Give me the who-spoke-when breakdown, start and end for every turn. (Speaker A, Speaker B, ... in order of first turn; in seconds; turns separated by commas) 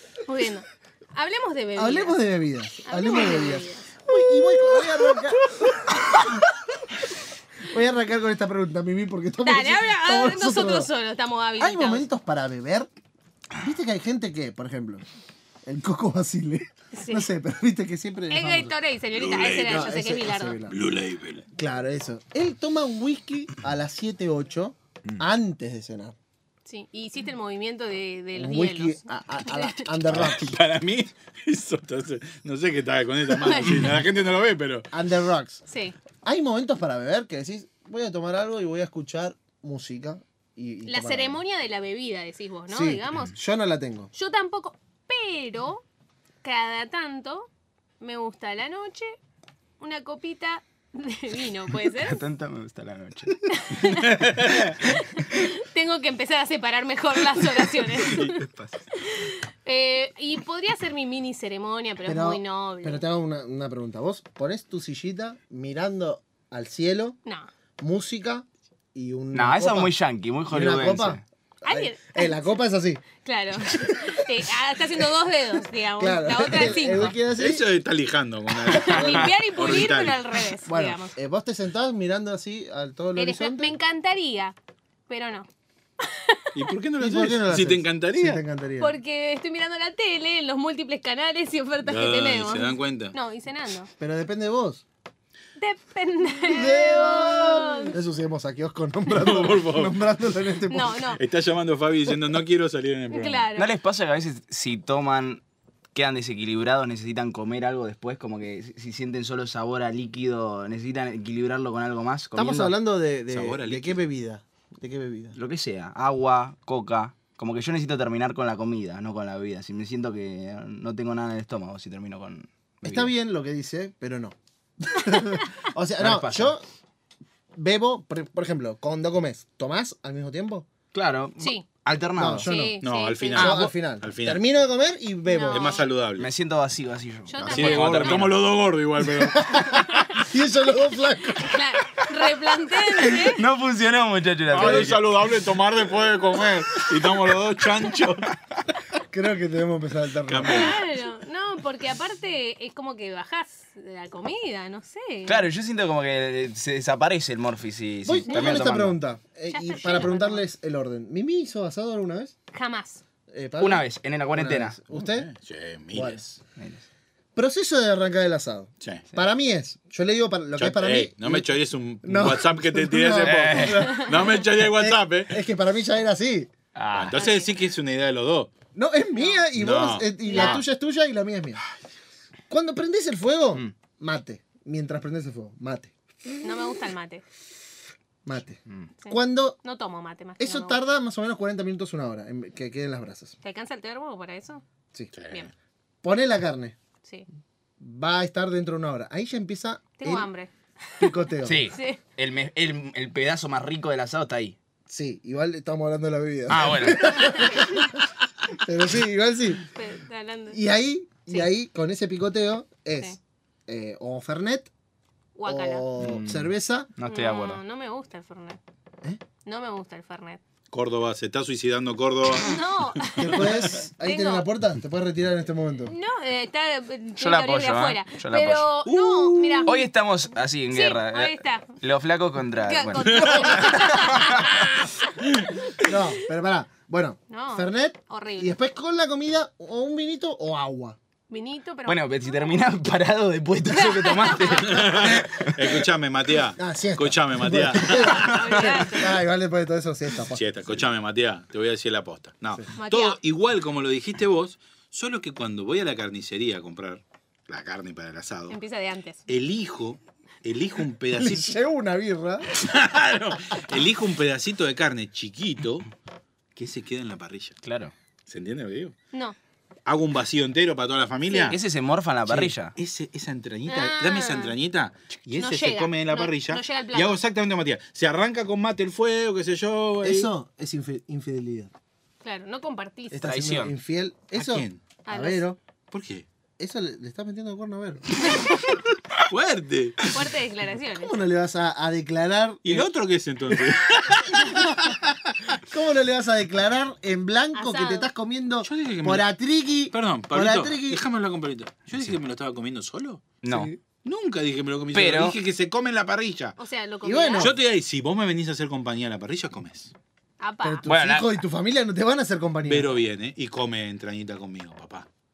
Speaker A: 0.3-2.2, Speaker B: 1.8-6.5, Speaker A: 2.8-5.2, Speaker B: 7.7-10.9, Speaker A: 9.4-12.1, Speaker B: 11.6-12.9, Speaker B: 13.6-15.0, Speaker B: 15.6-18.7, Speaker A: 16.9-17.3, Speaker A: 18.3-20.6, Speaker C: 19.1-20.0, Speaker B: 19.6-20.8, Speaker C: 20.7-21.5, Speaker B: 21.6-26.2, Speaker A: 26.7-29.9, Speaker B: 28.3-30.6, Speaker C: 30.1-34.9, Speaker A: 33.3-33.9, Speaker B: 34.9-35.6, Speaker A: 35.7-36.0, Speaker B: 36.2-41.4, Speaker A: 40.9-43.4, Speaker B: 42.7-44.1, Speaker A: 44.1-45.8, Speaker A: 46.4-47.5, Speaker A: 48.0-49.1, Speaker A: 49.8-52.2, Speaker D: 52.0-53.8, Speaker A: 53.5-58.4, Speaker C: 54.2-54.7, Speaker C: 58.0-58.5, Speaker D: 58.2-58.7, Speaker A: 59.0-63.0, Speaker B: 62.1-67.2, Speaker B: 67.8-69.9, Speaker D: 69.3-71.2, Speaker B: 70.5-73.0, Speaker A: 71.7-72.5, Speaker A: 73.2-77.1, Speaker B: 73.7-74.0, Speaker B: 76.0-77.7, Speaker C: 77.0-80.4, Speaker A: 78.7-81.2, Speaker B: 78.9-79.3, Speaker B: 80.7-83.7, Speaker A: 83.2-84.6, Speaker A: 85.1-85.5, Speaker A: 86.0-86.7, Speaker C: 86.5-88.4, Speaker B: 87.0-89.0, Speaker A: 88.8-93.9, Speaker C: 91.8-93.2, Speaker B: 94.0-94.8, Speaker A: 95.6-98.0, Speaker B: 96.5-101.1, Speaker C: 99.1-100.0, Speaker A: 100.7-101.2, Speaker C: 101.2-103.5, Speaker A: 103.1-103.7, Speaker D: 103.6-105.4, Speaker D: 105.9-112.8, Speaker B: 112.3-115.4, Speaker C: 113.3-114.0, Speaker D: 115.3-123.1, Speaker B: 122.8-126.6, Speaker D: 126.0-126.5, Speaker B: 127.5-130.7, Speaker D: 130.9-132.5, Speaker A: 131.4-131.7, Speaker B: 132.2-132.8, Speaker A: 132.4-133.6, Speaker C: 132.8-134.4, Speaker B: 133.3-135.8, Speaker A: 135.3-135.8, Speaker C: 135.5-136.3, Speaker D: 136.2-138.4, Speaker A: 137.3-138.3, Speaker C: 137.4-139.7, Speaker B: 139.1-141.6, Speaker A: 141.4-143.4, Speaker D: 143.0-145.0, Speaker C: 144.5-148.3, Speaker B: 144.5-144.9, Speaker B: 149.1-150.8, Speaker C: 150.3-150.9, Speaker A: 150.4-155.5, Speaker D: 155.3-159.0, Speaker B: 158.1-162.3, Speaker A: 158.3-158.6, Speaker A: 159.5-160.4, Speaker A: 162.5-163.0, Speaker B: 163.3-165.3, Speaker D: 163.6-164.8, Speaker C: 164.9-166.4, Speaker B: 165.9-166.2, Speaker D: 166.6-166.8, Speaker B: 167.3-171.5, Speaker C: 170.6-175.4, Speaker B: 172.0-176.5, Speaker D: 173.2-174.0, Speaker D: 176.8-177.2, Speaker C: 176.9-178.5, Speaker A: 177.1-177.5, Speaker B: 178.8-181.6, Speaker A: 179.2-179.4, Speaker C: 179.5-180.6, Speaker A: 180.3-180.6, Speaker B: 182.5-185.9, Speaker A: 186.4-187.2, Speaker B: 188.2-189.6, Speaker A: 189.0-190.8, Speaker B: 190.4-193.3, Speaker A: 193.4-194.6, Speaker C: 195.1-195.5, Speaker B: 196.0-196.8, Speaker B: 197.8-200.3, Speaker A: 200.0-201.1, Speaker B: 201.0-201.6, Speaker D: 201.4-204.6, Speaker A: 201.7-202.0, Speaker B: 204.9-207.9, Speaker D: 206.5-207.4, Speaker A: 207.2-207.8, Speaker B: 208.5-209.7, Speaker A: 209.8-210.6, Speaker B: 210.5-214.7, Speaker A: 215.4-215.8, Speaker B: 215.5-216.9, Speaker D: 216.0-217.6, Speaker A: 217.1-218.6, Speaker A: 219.4-220.4, Speaker C: 220.7-223.7, Speaker A: 222.4-224.5, Speaker B: 223.2-225.9, Speaker A: 225.8-229.9, Speaker D: 227.2-228.7, Speaker C: 228.9-229.7, Speaker D: 229.7-234.5, Speaker A: 230.7-231.7, Speaker A: 232.6-235.1, Speaker C: 233.0-233.8, Speaker B: 235.8-241.0, Speaker A: 237.3-238.6, Speaker A: 241.3-242.6, Speaker D: 241.9-245.8, Speaker A: 243.7-244.9, Speaker C: 244.6-248.7, Speaker B: 246.6-250.4, Speaker A: 248.0-249.2, Speaker C: 250.3-258.6, Speaker A: 252.8-253.2, Speaker A: 258.5-259.2, Speaker C: 259.3-261.6, Speaker B: 261.1-262.5, Speaker C: 262.5-265.9, Speaker C: 266.6-267.6, Speaker D: 267.6-267.9, Speaker C: 268.3-268.9, Speaker C: 269.9-271.6, Speaker D: 271.5-272.7, Speaker C: 272.3-280.3, Speaker A: 273.7-274.6, Speaker A: 275.4-277.2, Speaker B: 280.0-281.7, Speaker A: 282.2-283.3, Speaker B: 283.1-285.6, Speaker D: 283.2-283.8, Speaker C: 284.3-284.8, Speaker A: 285.1-285.4, Speaker C: 285.9-286.2, Speaker B: 286.6-288.3, Speaker A: 288.3-288.6, Speaker C: 289.2-290.2, Speaker A: 290.1-291.2, Speaker B: 291.0-292.9, Speaker C: 292.6-295.0, Speaker B: 294.3-295.0, Speaker B: 295.6-301.0, Speaker A: 297.6-298.1, Speaker C: 298.6-299.3, Speaker C: 299.9-303.3, Speaker D: 303.4-303.7, Speaker B: 303.5-303.8, Speaker C: 304.0-306.6, Speaker D: 304.9-305.4, Speaker A: 306.6-307.5, Speaker B: 307.0-307.6, Speaker C: 307.4-309.9, Speaker A: 310.4-310.9, Speaker B: 310.6-312.9, Speaker D: 310.9-311.4, Speaker C: 312.6-315.1